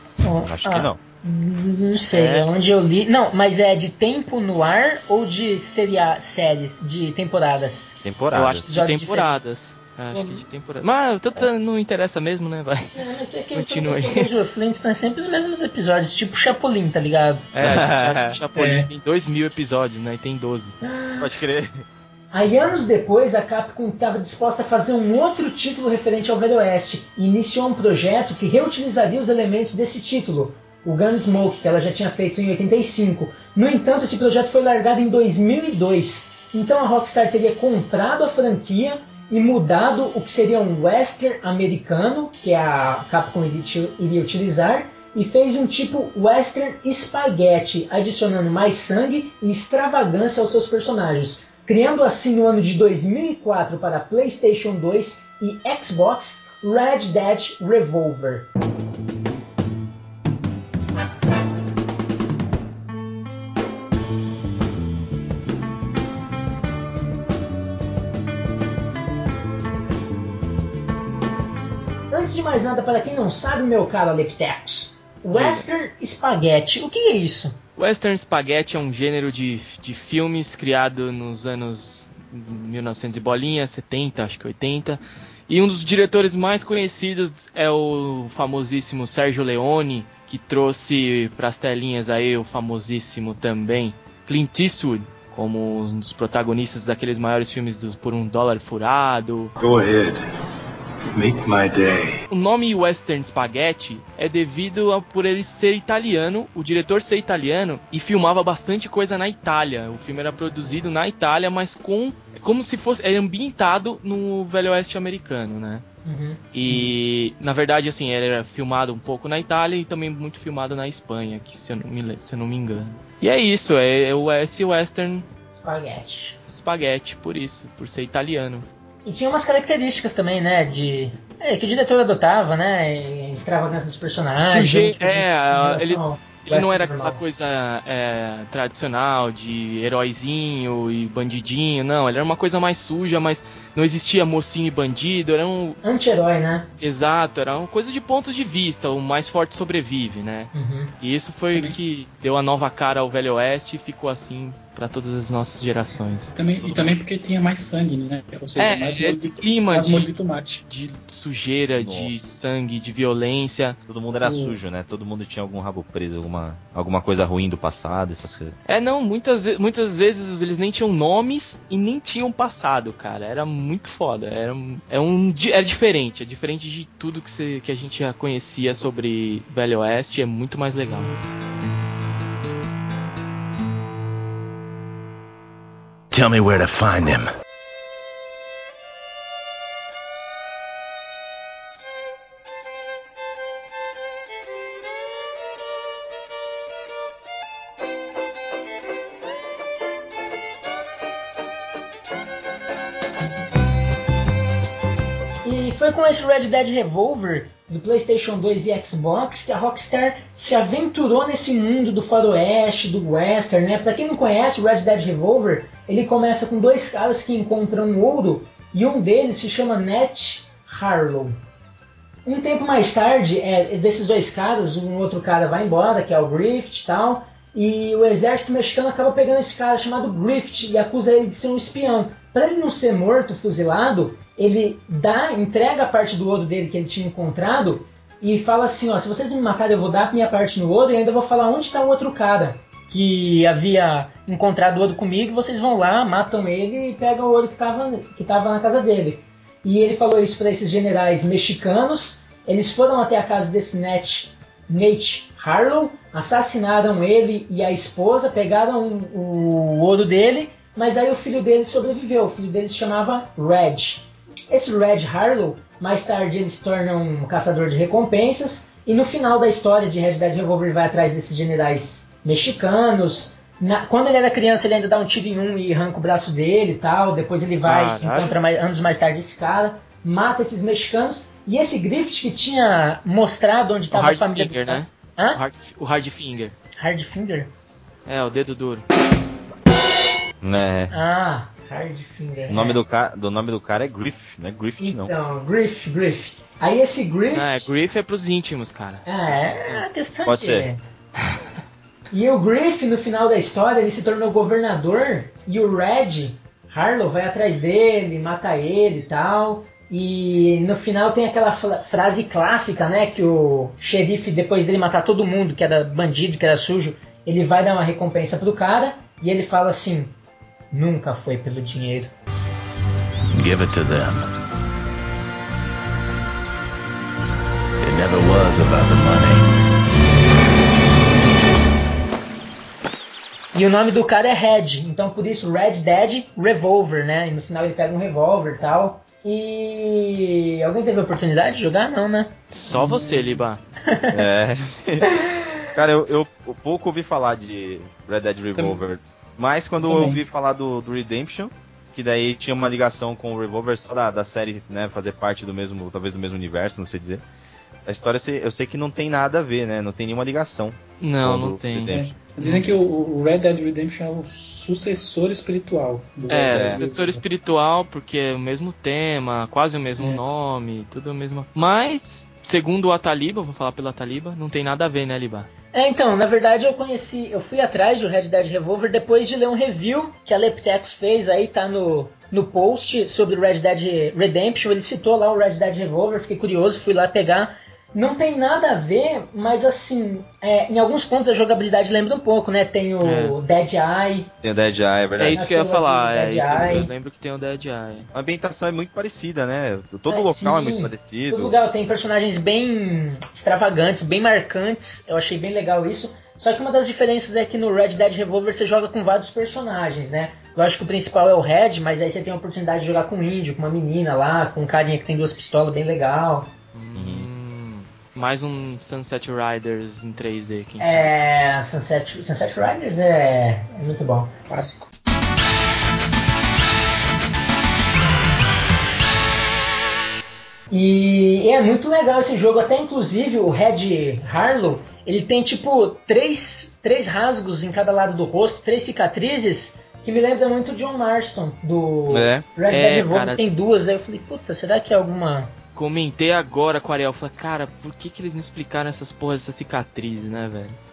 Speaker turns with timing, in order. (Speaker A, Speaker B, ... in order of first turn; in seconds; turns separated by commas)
Speaker A: 0.2-8.0, Speaker B: 0.4-1.0, Speaker C: 2.1-2.5, Speaker B: 8.0-8.7, Speaker C: 8.3-13.0, Speaker A: 8.7-9.6, Speaker A: 12.9-17.5, Speaker C: 13.6-14.3, Speaker C: 17.5-20.8, Speaker B: 17.6-18.4, Speaker D: 18.6-18.9, Speaker A: 20.8-21.3, Speaker B: 21.2-21.9, Speaker A: 22.3-58.5, Speaker A: 72.1-77.6, Speaker C: 75.3-75.7, Speaker C: 77.8-99.5, Speaker E: 99.6-100.2, Speaker E: 101.1-102.2, Speaker C: 102.3-115.8, Speaker A: 116.0-116.8, Speaker C: 116.5-125.3, Speaker A: 125.5-126.4, Speaker C: 126.5-128.7, Speaker A: 129.1-137.2, Speaker C: 134.4-145.8, Speaker A: 145.8-146.7, Speaker C: 146.8-156.3, Speaker A: 150.5-150.9, Speaker D: 156.3-160.7, Speaker B: 156.6-157.0, Speaker C: 158.6-160.1, Speaker C: 160.7-163.8, Speaker B: 161.8-162.2, Speaker B: 163.9-168.6, Speaker D: 164.2-164.6, Speaker C: 168.7-181.1, Speaker E: 186.1-187.3, Speaker A: 205.4-221.4, Speaker A: 222.3-285.4, Speaker C: 277.7-278.4, Speaker C: 283.9-286.6, Speaker A: 286.8-287.5, Speaker C: 288.1-288.8, Speaker B: 290.4-290.9, Speaker A: 290.9-292.8, Speaker B: 292.5-295.1, Speaker A: 294.8-297.7, Speaker C: 297.3-299.9, Speaker A: 299.1-300.8, Speaker B: 300.2-300.7, Speaker A: 302.1-320.1, Speaker A: 320.7-322.1, Speaker E: 323.4-324.3, Speaker E: 327.8-329.5, Speaker A: 333.5-342.4, Speaker C: 342.5-343.6, Speaker D: 342.7-343.4, Speaker A: 343.9-344.2, Speaker B: 344.1-345.1, Speaker A: 345.0-345.5, Speaker B: 345.8-357.2, Speaker D: 349.8-350.2, Speaker B: 357.9-362.1, Speaker C: 361.0-362.7, Speaker D: 361.9-367.2, Speaker C: 366.3-375.5, Speaker B: 366.5-366.8, Speaker D: 370.0-370.2, Speaker A: 375.7-394.3, Speaker C: 393.0-393.4, Speaker B: 394.4-395.4, Speaker C: 395.2-398.1, Speaker A: 395.3-396.9, Speaker B: 398.1-401.6, Speaker A: 400.1-416.5, Speaker C: 416.7-421.1, Speaker B: 416.9-417.3, Speaker A: 420.8-424.3, Speaker D: 424.5-424.9, Speaker A: 430.7-445.5, Speaker B: 442.1-442.5, Speaker C: 442.7-443.4, Speaker C: 445.8-450.8